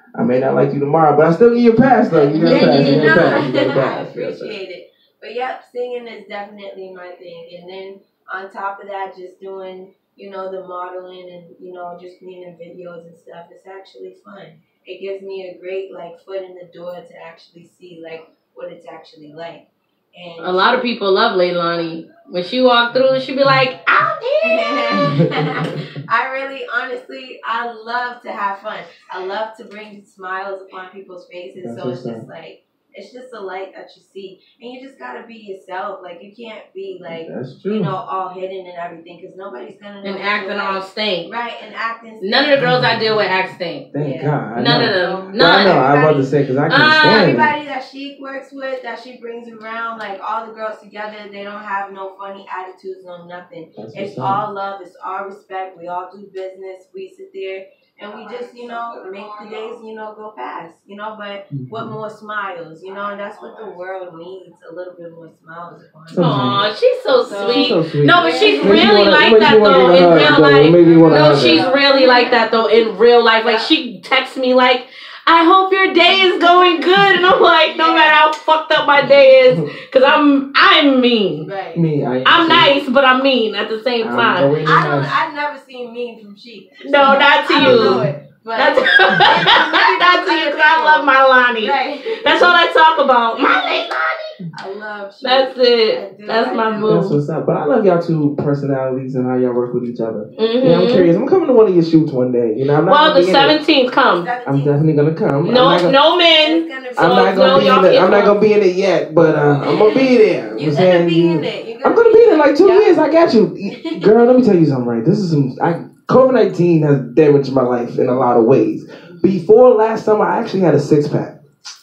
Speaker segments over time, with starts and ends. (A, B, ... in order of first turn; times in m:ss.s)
0:00.1-0:04.6 A
0:02.1-0:20.9 B
0:02.3-0:03.5 C
0:20.4-0:25.2 C
0:22.9-0:23.7 A
0:24.4-0:42.7 B
0:24.9-0:25.8 A
0:31.6-0:32.2 A
0:37.0-0:37.9 A
0:40.0-0:41.3 C
0:42.2-0:43.9 C
0:42.5-0:43.3 A
0:43.9-0:47.5 A
0:44.0-0:44.4 B
0:44.6-0:46.0 C
0:45.0-0:46.3 B
0:46.7-0:47.3 C
0:47.1-1:06.4 B
0:53.8-0:54.4 A
1:01.5-1:01.9 A
1:06.1-1:06.6 A
1:06.1-1:21.5 C
1:07.2-1:09.1 B
1:07.3-1:11.6 A
1:09.6-1:12.9 B
1:13.4-1:13.7 B
1:16.0-1:16.9 B
1:17.6-1:18.2 B
1:19.0-1:19.6 A
1:21.4-1:21.8 B
1:21.7-1:22.7 A
1:22.2-1:24.5 C
1:24.0-1:25.2 A
1:24.6-1:32.6 B
1:26.8-1:34.4 C
1:27.6-1:28.1 A
1:33.4-1:33.8 B
1:34.5-1:37.0 B
1:35.2-1:37.2 C
1:36.8-1:43.6 A
1:40.4-1:41.1 C
1:42.8-1:44.3 C
1:44.0-1:44.8 B
1:44.4-1:46.0 A
1:45.4-1:48.4 C
1:46.4-1:47.8 B
1:47.0-2:01.4 A
1:49.7-1:50.1 C
1:50.5-1:52.9 B